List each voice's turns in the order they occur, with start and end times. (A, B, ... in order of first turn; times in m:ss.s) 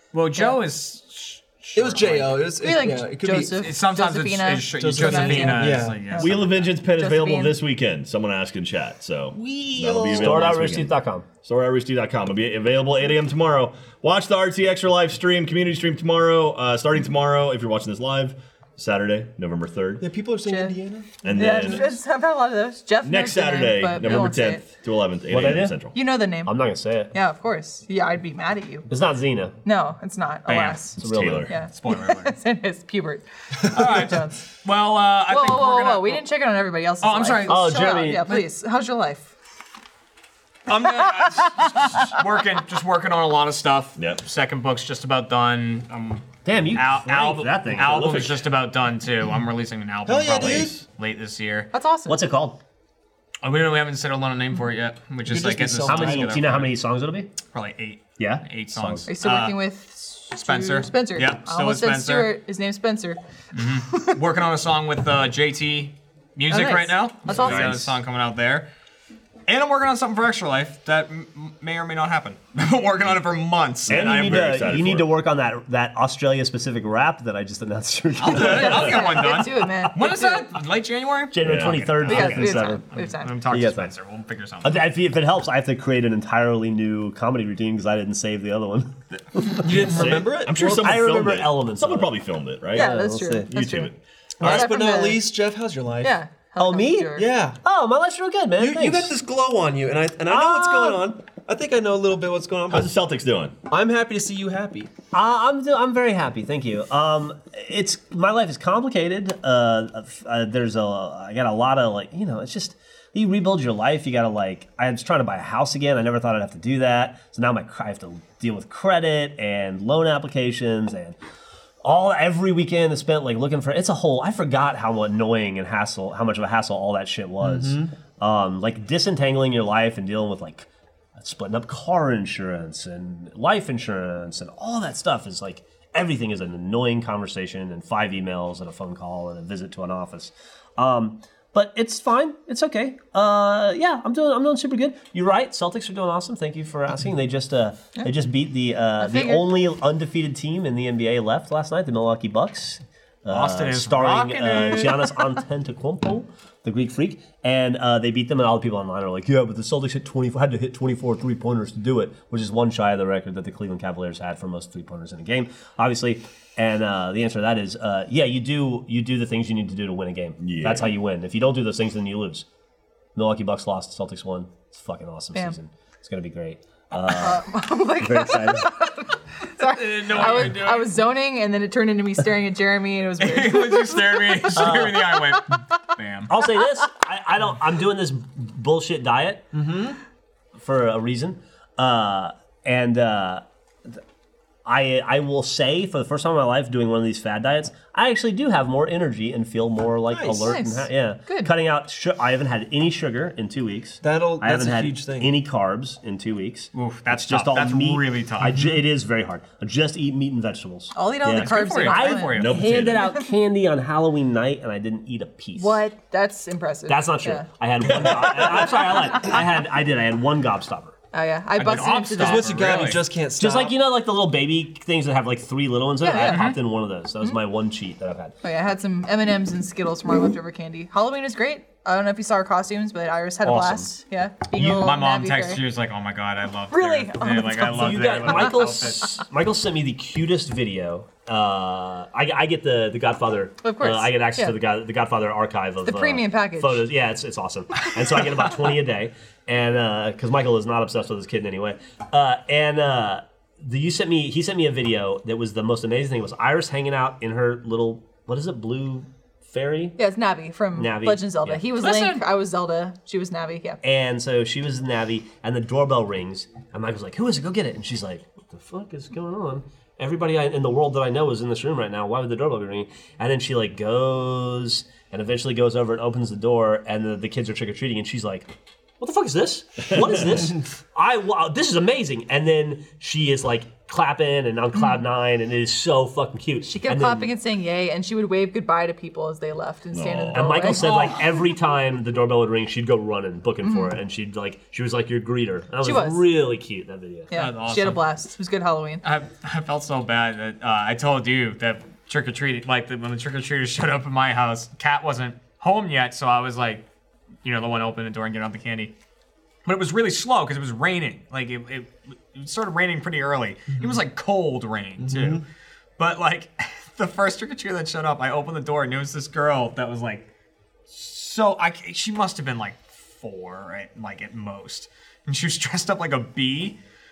0:00.1-0:02.5 A
0:00.3-0:00.6 B
0:01.7-0:03.7 C
0:02.6-0:07.6 B
0:03.6-0:06.6 A
0:04.8-0:06.1 C
0:06.1-0:20.0 D
0:09.8-0:11.3 E
0:20.0-0:21.8 C
0:20.4-0:20.8 B
0:21.2-0:22.0 D
0:21.3-0:24.6 B
0:23.0-0:26.0 D
0:25.3-0:25.8 E
0:25.9-0:26.6 B
0:26.4-0:27.1 E
0:27.1-0:28.9 B
0:28.9-0:29.6 E
0:29.6-0:34.4 B
0:30.4-0:30.8 A
0:31.0-0:31.5 D
0:31.0-0:31.5 E
0:31.7-0:32.4 A
0:33.7-0:36.2 A
0:35.3-0:39.3 B
0:37.0-0:38.4 A
0:37.5-0:38.4 E
0:40.7-0:51.7 A
0:41.0-0:42.0 B
0:44.0-0:44.2 D
0:46.4-0:48.2 E
0:47.7-0:48.5 D
0:50.0-0:50.7 C
0:50.3-0:50.8 D
0:51.7-0:52.2 B
0:52.1-0:52.6 E
0:53.4-0:56.7 A
0:55.2-0:56.4 C
0:55.8-0:57.3 E
0:57.5-0:59.6 A
0:58.2-0:59.0 E
0:59.1-1:03.2 B
1:00.4-1:02.3 A
1:03.5-1:08.7 A
1:06.5-1:07.7 B
1:07.3-1:07.9 D
1:09.5-1:14.6 A
1:13.9-1:15.1 D
1:13.9-1:19.3 E
1:18.2-1:24.9 A
1:18.3-1:20.5 B
1:21.3-1:22.8 E
1:21.4-1:21.8 D
1:22.0-1:23.4 B
1:23.5-1:23.9 E
1:24.6-1:32.1 E
1:29.6-1:31.0 C
1:29.6-1:32.9 D
1:32.7-1:33.5 E
1:32.7-1:35.2 B
1:33.5-1:34.7 D
1:34.4-1:36.2 C
1:36.0-1:37.3 B
1:36.6-1:39.1 E
1:37.1-1:37.6 C
1:38.6-1:43.0 C
1:40.2-1:41.0 E
1:42.7-1:43.6 D
1:43.7-1:44.9 C
1:45.1-2:01.2 E
2:01.8-2:52.4 E
2:07.4-2:07.9 C
2:29.0-2:29.5 B
2:33.3-2:35.3 A
2:50.4-2:50.9 D
2:53.1-2:58.7 E
2:57.1-3:05.4 B
2:59.6-3:00.9 A
3:03.2-3:06.3 A
3:04.5-3:05.2 E
3:06.3-3:09.5 E
3:09.5-3:10.0 C
3:10.6-3:14.0 E
3:14.6-3:35.8 E
3:20.1-3:20.6 C
3:20.4-3:21.5 B
3:24.0-3:25.3 C
3:26.7-3:28.6 A
3:28.5-3:28.8 C
3:30.9-3:33.2 B
3:31.2-3:31.8 D
3:31.4-3:32.8 A
3:32.3-3:33.1 D
3:35.6-3:37.5 B
3:36.9-3:40.9 E
3:37.9-3:38.5 D
3:41.1-3:42.8 B
3:41.6-3:43.0 A
3:42.2-3:43.8 C
3:43.4-3:48.3 E
3:46.0-3:46.5 B
3:46.1-3:46.6 A
3:48.4-3:55.6 B
3:53.4-3:53.9 E
3:54.5-3:54.9 E
3:54.6-3:59.2 A
3:56.7-3:59.2 B
3:57.6-4:20.0 E
4:03.6-4:04.6 B
4:05.8-4:06.8 B
4:20.0-4:23.8 B
4:20.7-4:21.8 E
4:21.8-4:22.2 A
4:23.8-4:47.3 E
4:40.0-4:40.7 C
4:46.6-4:51.1 B
4:49.9-4:50.7 D
4:50.3-4:57.3 E
4:50.8-4:51.3 A
4:53.6-4:53.9 B
4:55.8-4:56.4 B
4:57.3-4:59.0 B
4:57.3-4:58.1 A
4:59.0-5:06.8 A
5:07.4-5:08.9 A
5:09.6-5:15.4 A
5:15.0-5:15.4 C
5:16.0-5:20.3 A
5:20.9-5:26.8 A